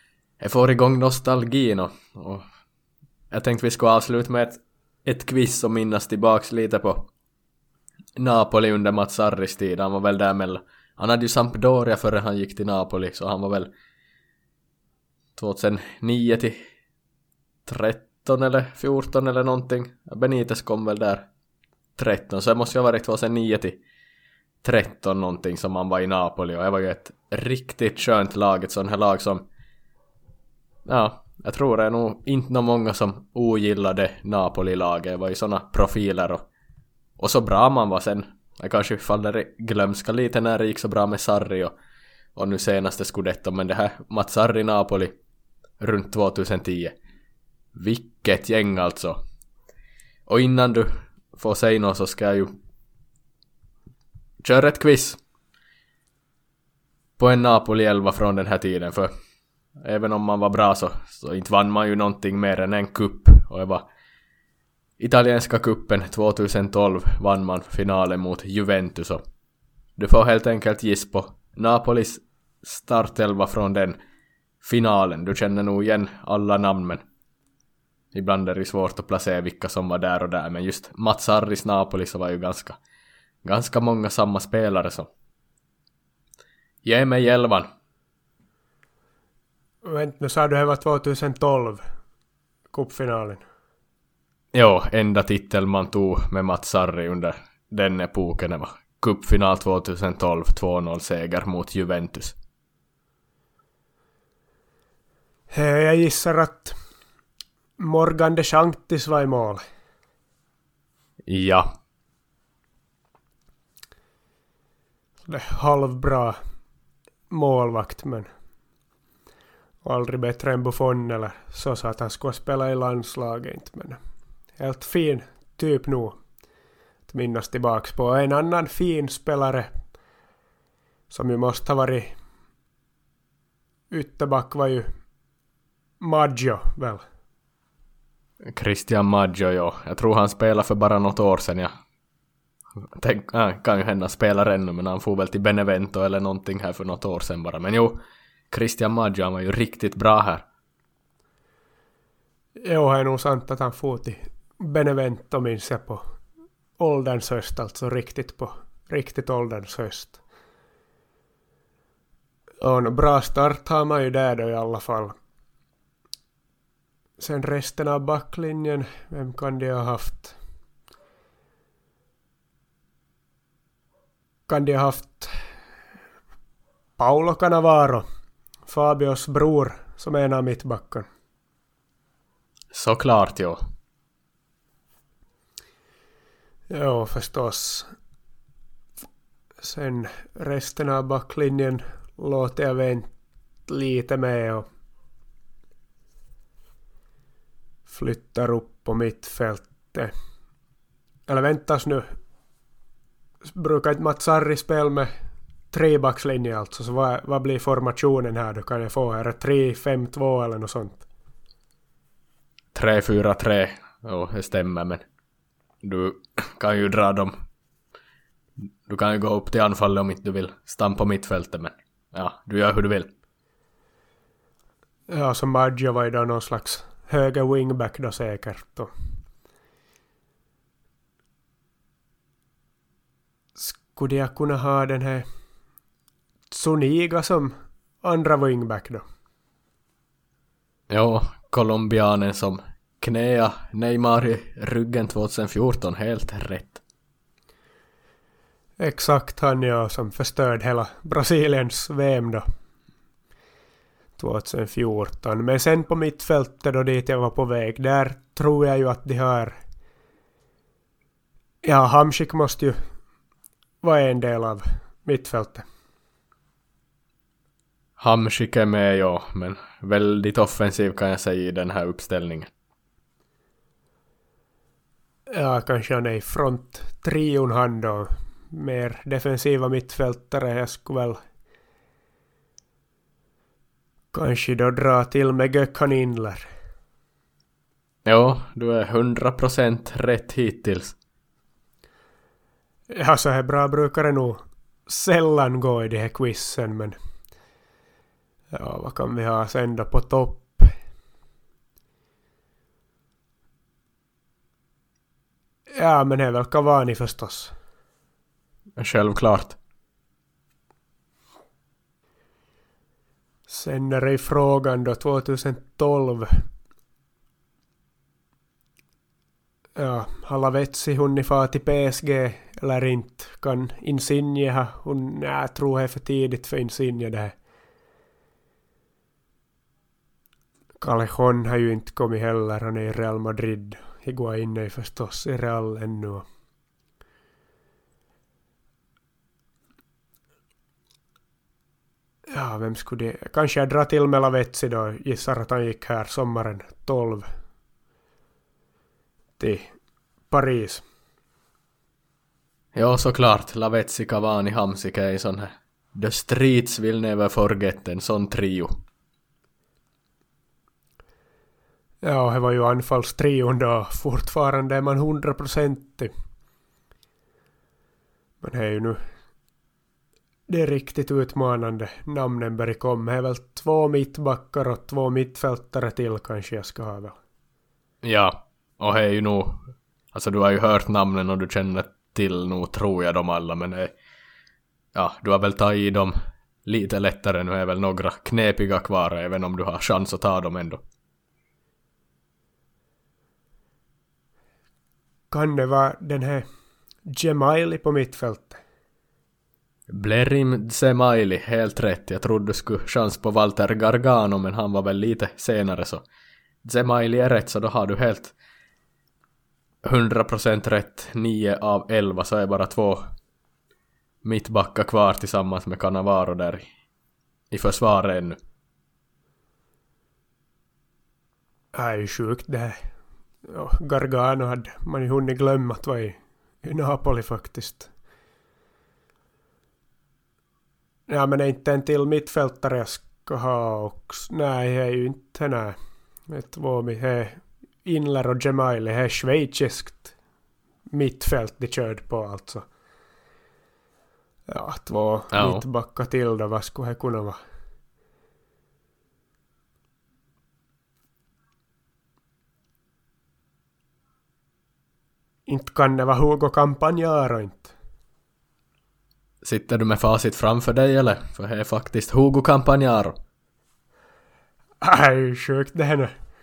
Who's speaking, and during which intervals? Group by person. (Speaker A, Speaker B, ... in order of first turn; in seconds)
Speaker A: 0.4-2.4, 3.3-7.1, 8.2-13.7, 15.3-16.6, 17.6-21.2, 22.0-23.8, 24.6-29.4, 30.9-36.4, 37.2-41.7, 42.4-45.1, 45.8-46.9, 47.7-49.2, 50.3-52.5, 54.4-55.2, 57.2-59.1, 59.8-63.8, 65.0-69.2, 70.0-74.0, 74.6-77.0, 78.1-82.8, 83.4-85.1, 86.8-87.7, 94.5-102.3, 111.3-111.7, 138.5-141.7, 142.9-150.4, 182.7-183.6, 212.7-215.0, 215.8-217.4, 218.9-223.1, 240.9-246.8, 268.0-272.5, 288.1-290.9, 308.8-309.6, 352.7-358.8, 378.0-383.9, 384.9-390.8, 399.9-406.0, 406.6-408.3, 409.8-413.1, 414.2-416.7, 417.5-418.4, 445.3-445.6, 459.4-463.2
Speaker B: 89.8-91.8, 92.7-93.4, 105.5-106.8, 107.8-109.6, 115.3-116.4, 117.3-118.3, 119.8-124.0, 124.6-126.2, 127.1-129.7, 131.1-132.1, 133.9-134.9, 136.0-137.0, 152.6-156.0, 156.8-160.2, 162.6-165.2, 167.2-170.3, 174.5-175.4, 177.0-178.0, 178.7-181.1, 186.7-187.9, 189.6-193.1, 193.7-194.7, 197.9-200.1, 201.3-202.1, 203.4-205.1, 205.7-211.0, 225.1-228.9, 233.6-235.2, 236.5-239.0, 248.8-252.4, 254.2-259.6, 261.6-262.8, 263.8-265.6, 275.3-281.2, 284.1-286.5, 292.9-296.9, 298.5-300.7, 305.7-307.5, 313.5-316.4, 319.8-327.3, 330.8-336.2, 342.3-347.3, 349.4-349.7, 350.3-350.8, 362.0-366.1, 368.4-369.0, 370.5-377.2, 395.3-396.4, 397.1-398.6, 421.7-422.8, 423.4-427.9, 431.1-435.8, 436.3-440.1, 440.9-442.7, 444.5-447.4, 455.5-457.7, 464.8-466.1